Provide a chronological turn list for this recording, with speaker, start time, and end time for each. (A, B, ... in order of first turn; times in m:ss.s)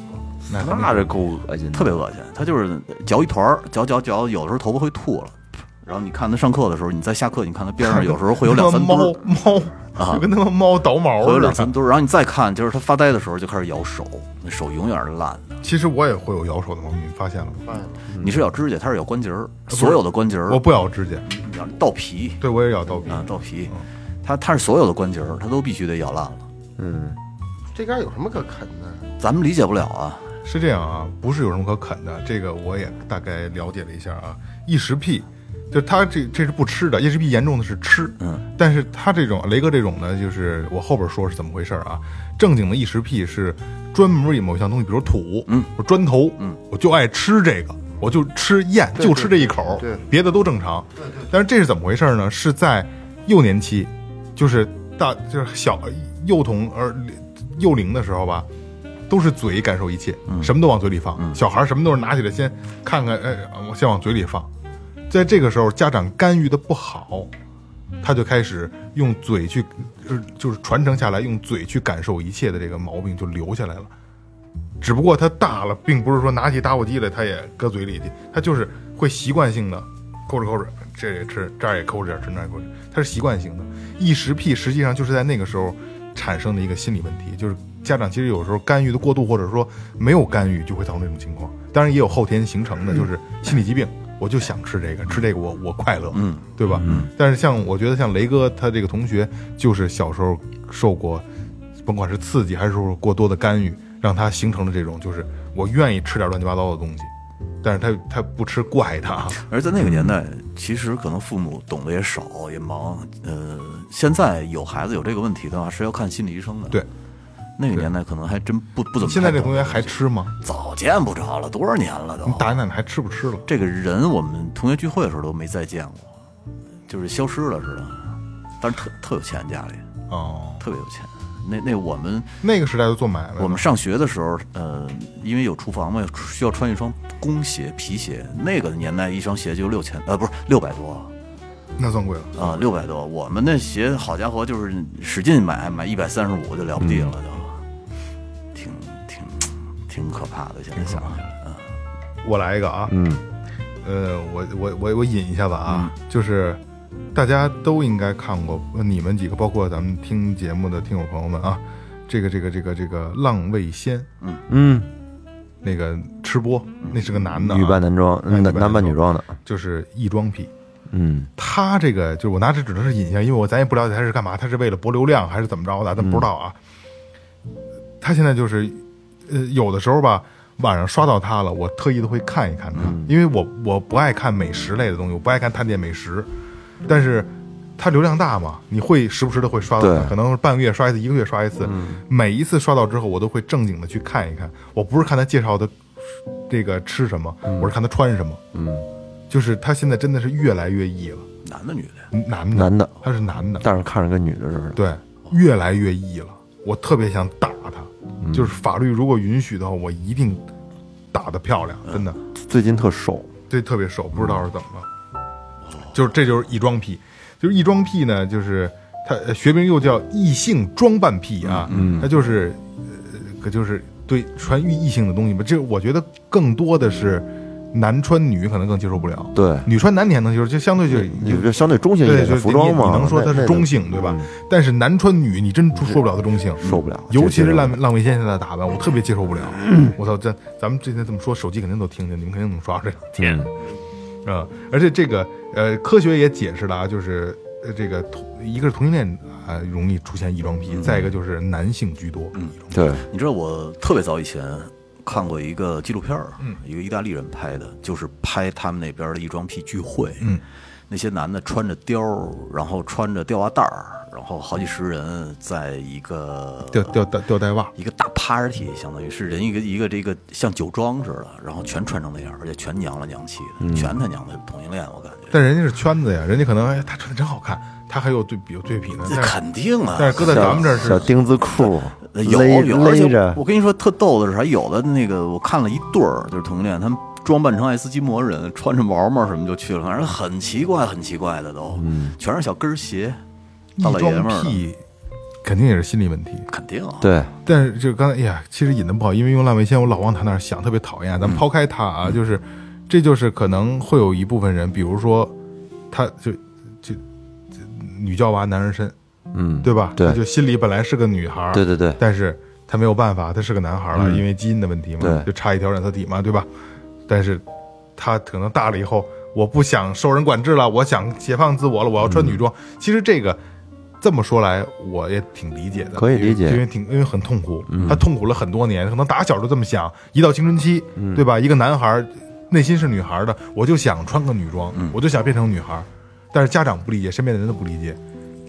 0:00.5-0:01.2 A
0:00.5-0:02.0 B
0:01.7-0:09.2 C
0:07.8-0:11.7 A
0:09.9-0:10.2 C
0:11.2-0:15.6 C
0:15.6-0:17.6 A
0:17.6-0:18.0 D
0:18.2-0:20.6 C
0:19.7-0:21.2 A
0:21.2-0:22.4 C
0:22.4-0:23.8 A
0:23.1-0:26.4 C
0:26.8-0:27.2 B
0:27.7-0:29.1 D
0:29.2-0:30.3 C
0:30.4-0:58.5 A
0:49.0-0:50.0 D
0:59.1-1:04.5 A
1:00.3-1:00.5 C
1:05.1-1:07.3 A
1:08.0-1:13.9 A
1:14.8-1:41.2 A
1:36.1-1:37.1 C
1:41.8-1:47.1 A
1:47.6-1:49.4 A
1:49.4-1:56.8 C
1:49.8-1:50.1 B
1:57.6-2:02.6 C
1:59.0-2:00.3 A
2:02.2-2:03.4 A
2:03.5-2:06.1 C
2:06.9-2:09.8 C
2:10.1-2:10.6 A
2:10.6-2:12.3 C
2:12.4-2:13.6 A
2:13.4-2:21.1 C
2:21.8-2:22.7 A
2:22.3-2:27.6 C
2:26.8-2:27.1 B
2:28.5-2:31.6 C
2:30.8-2:31.2 A
2:32.2-2:32.9 A
2:32.9-2:33.2 B
2:33.8-2:36.6 A
2:35.7-2:35.9 C
2:37.1-2:44.1 A
2:44.5-2:44.9 B
2:45.6-2:50.5 A
2:47.3-2:49.3 B
2:50.9-2:51.3 B
2:51.4-2:56.5 A
2:56.0-2:56.3 B
2:58.0-3:06.3 A
3:02.8-3:03.1 B
3:06.8-3:15.7 A
3:09.8-3:10.2 B
3:11.6-3:12.0 B
3:16.5-3:18.4 A
3:17.5-3:17.7 B
3:18.5-3:18.8 B
3:19.3-3:21.2 A
3:21.4-3:22.1 C
3:22.1-3:23.6 A
3:22.5-3:22.9 B
3:23.6-3:24.8 B
3:24.8-3:30.4 A
3:28.2-3:28.5 B
3:31.1-3:32.2 A
3:32.4-3:33.3 B
3:33.5-3:34.9 A
3:35.9-3:51.5 A
3:41.4-3:42.0 C
3:41.7-3:42.1 B
3:49.3-3:49.7 B
3:50.9-3:54.3 B
3:52.0-4:03.5 A
3:56.6-3:57.8 B
4:03.2-4:03.5 B
4:04.2-4:12.4 A
4:10.7-4:11.0 C
4:12.3-4:20.3 C
4:12.7-4:13.0 B
4:20.9-4:27.0 C
4:26.7-4:27.7 A
4:27.7-4:35.3 C
4:33.6-4:33.9 B
4:35.3-4:39.4 A
4:39.0-4:41.0 C
4:40.0-4:41.1 A
4:40.2-4:43.4 B
4:41.6-4:53.2 C
4:51.8-4:52.1 B
4:53.8-4:54.8 A
4:53.8-4:54.6 C
4:55.4-4:56.5 A
4:56.5-4:57.1 C
4:57.0-4:57.3 B
4:57.4-5:05.3 A
5:05.9-5:07.0 A
5:07.6-5:08.9 A
5:09.3-5:10.2 B
5:09.6-5:16.5 A
5:11.5-5:12.0 B
5:13.9-5:14.2 B
5:15.0-5:15.3 B
5:17.1-5:17.4 A
5:18.0-5:23.4 A
5:22.0-5:22.4 B
5:24.0-5:38.0 A
5:26.0-5:26.6 B
5:27.7-5:28.0 B
5:31.0-5:31.2 B